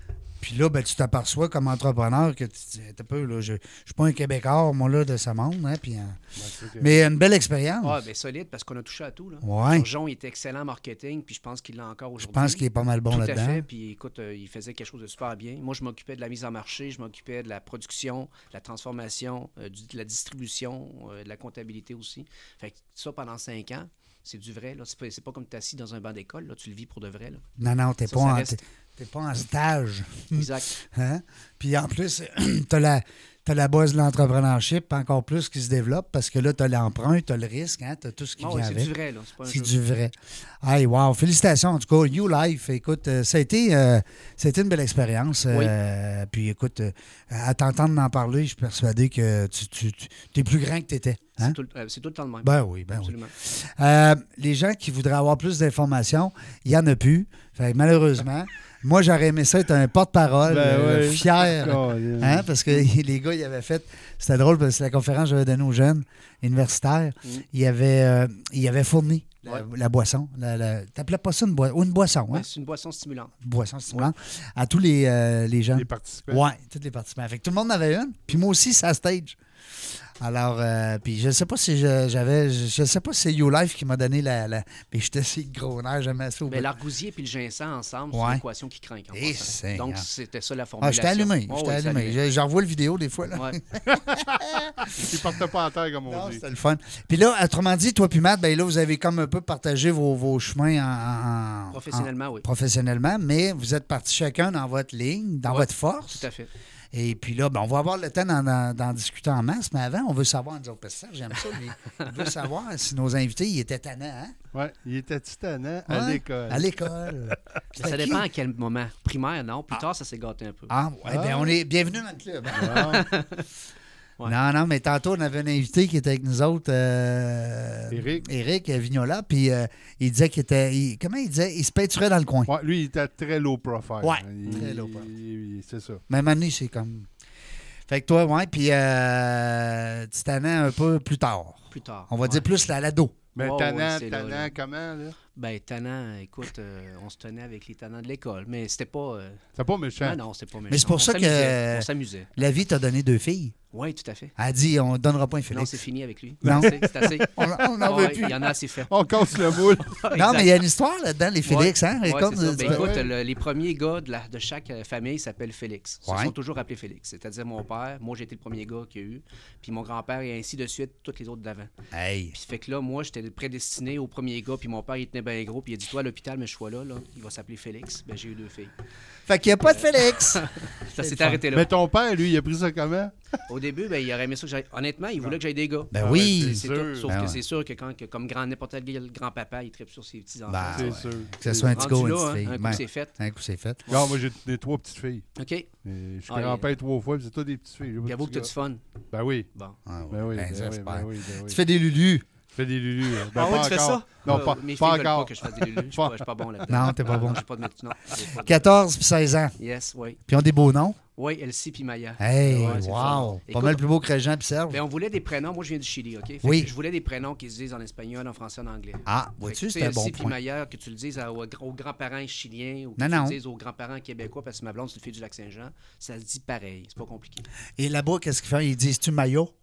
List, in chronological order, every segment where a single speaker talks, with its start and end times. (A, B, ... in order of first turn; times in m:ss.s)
0:00.4-0:06.2 A
0:06.4-0:07.0 B
0:06.8-0:08.0 A
0:07.8-0:27.4 C
0:09.4-0:09.8 A
0:12.2-0:13.6 A
0:27.6-0:51.6 A
0:28.1-0:28.6 C
0:30.3-0:30.7 C
0:38.4-0:39.7 C
0:51.4-0:53.3 C
0:52.4-1:12.5 A
1:00.4-1:02.5 B
1:12.3-1:13.3 C
1:13.4-1:19.4 A
1:15.7-1:16.4 B
1:20.2-1:26.7 A
1:26.5-1:32.2 C
1:28.1-1:28.4 A
1:29.1-1:30.1 A
1:30.8-1:34.9 A
1:33.3-1:33.6 C
1:34.8-1:36.4 B
1:36.0-1:46.3 A
1:41.7-1:42.4 C
1:45.4-1:46.5 C
1:46.9-1:54.4 A
1:54.5-1:56.9 B
1:55.9-1:58.2 A
1:57.7-2:00.7 C
2:00.7-2:03.0 A
2:01.0-2:01.6 B
2:02.5-2:03.5 C
2:02.5-2:03.0 B
2:04.2-2:12.5 A
2:07.9-2:08.3 B
2:12.5-2:16.0 B
2:14.0-2:15.1 A
2:14.4-2:14.7 C
2:16.1-2:17.1 A
2:17.9-2:23.2 A
2:21.7-2:22.5 C
2:23.3-2:25.2 B
2:23.4-2:24.5 C
2:25.3-2:29.4 C
2:29.5-2:30.2 B
2:30.0-2:32.3 C
2:30.7-2:33.5 A
2:33.7-2:34.3 C
2:34.4-2:35.8 A
2:35.5-2:40.6 C
2:36.4-2:38.4 A
2:36.4-2:39.9 B
2:40.1-2:42.9 A
2:41.4-2:51.7 C
2:42.6-2:43.1 B
2:46.0-2:46.3 A
2:51.9-2:52.3 A
2:52.3-2:58.7 C
2:59.3-3:01.4 A
2:59.4-3:01.7 C
3:01.5-3:03.1 B
3:03.5-3:11.0 C
3:05.9-3:07.4 A
3:05.9-3:07.1 B
3:10.5-3:13.8 A
3:10.7-3:12.0 B
3:11.6-3:13.1 C
3:13.9-3:18.5 B
3:15.4-3:15.7 C
3:16.3-3:16.7 C
3:18.0-3:18.8 C
3:19.1-3:19.5 B
3:19.8-3:22.2 A
3:20.1-3:21.6 B
3:22.5-3:26.2 B
3:23.3-3:28.7 C
3:26.7-3:27.4 A
3:28.4-3:29.5 A
3:29.6-3:30.2 C
3:30.3-3:31.0 A
3:31.2-3:33.8 C
3:32.2-3:34.8 A
3:32.5-3:33.2 B
3:34.7-3:47.5 C
3:36.4-3:36.7 A
3:39.0-3:40.3 A
3:43.0-3:43.4 A
3:47.8-3:49.5 A